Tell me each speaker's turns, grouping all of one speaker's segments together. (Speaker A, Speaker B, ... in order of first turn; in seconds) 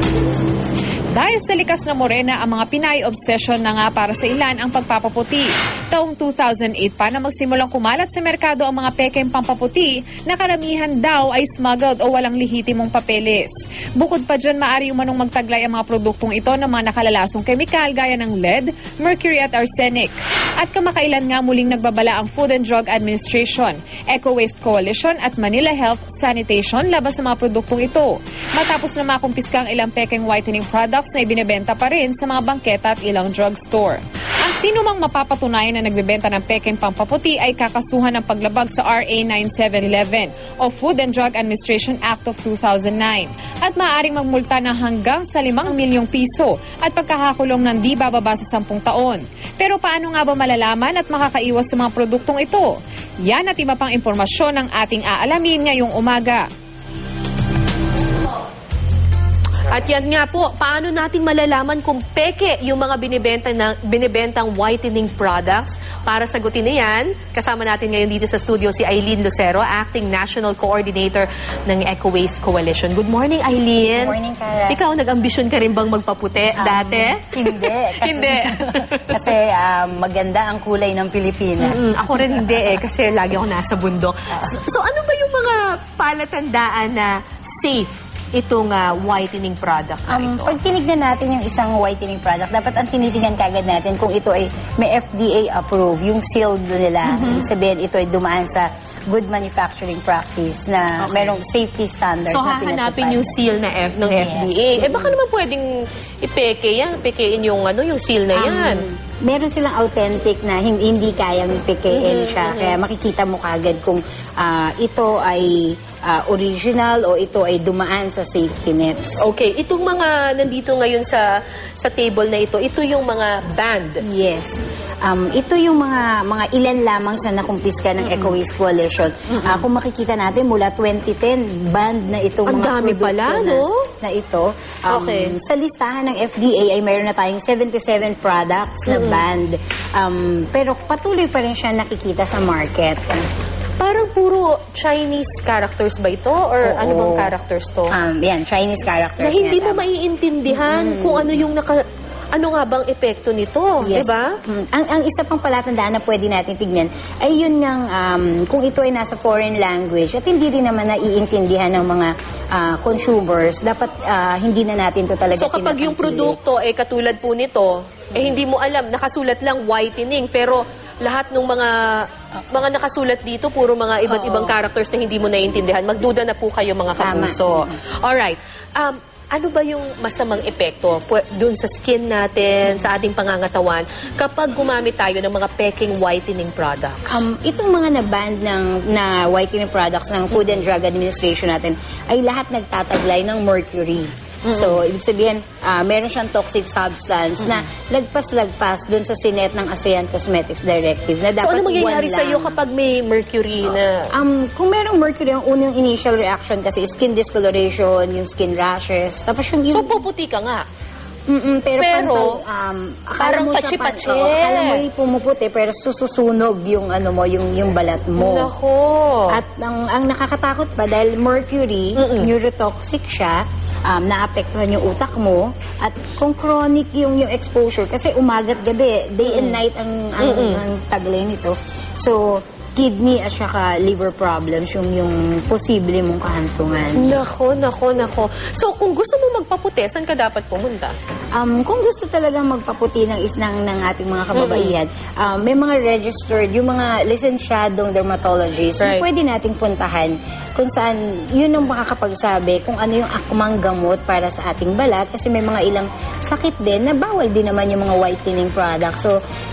Speaker A: 1.1-52.7, 53.3-56.5
Speaker B: 59.7-74.2, 74.7-79.2, 81.6-90.6, 97.0-97.5, 101.0-101.4, 102.3-108.9, 111.9-112.8, 119.2-124.0, 128.0-128.3, 129.3-129.7, 132.5-133.9, 134.9-135.3, 138.9-139.2, 143.8-147.9, 149.2-154.4, 165.3-187.2, 194.4-194.8, 201.4-204.1, 209.7-210.6, 211.8-212.4, 213.2-214.8, 218.2-219.4, 221.9-222.3, 229.2-229.6, 230.2-230.6, 236.9-240.9, 244.3-244.7, 248.8-249.1
Speaker C: 73.8-74.8, 76.6-81.8, 90.1-103.4, 104.0-105.2, 108.3-119.2, 124.0-143.2, 146.6-147.3, 147.9-149.8, 150.5-151.5, 153.8-166.4, 174.1-174.5, 177.0-177.8, 187.1-202.6, 204.1-210.0, 211.3-218.5, 219.3-237.2, 241.3-259.1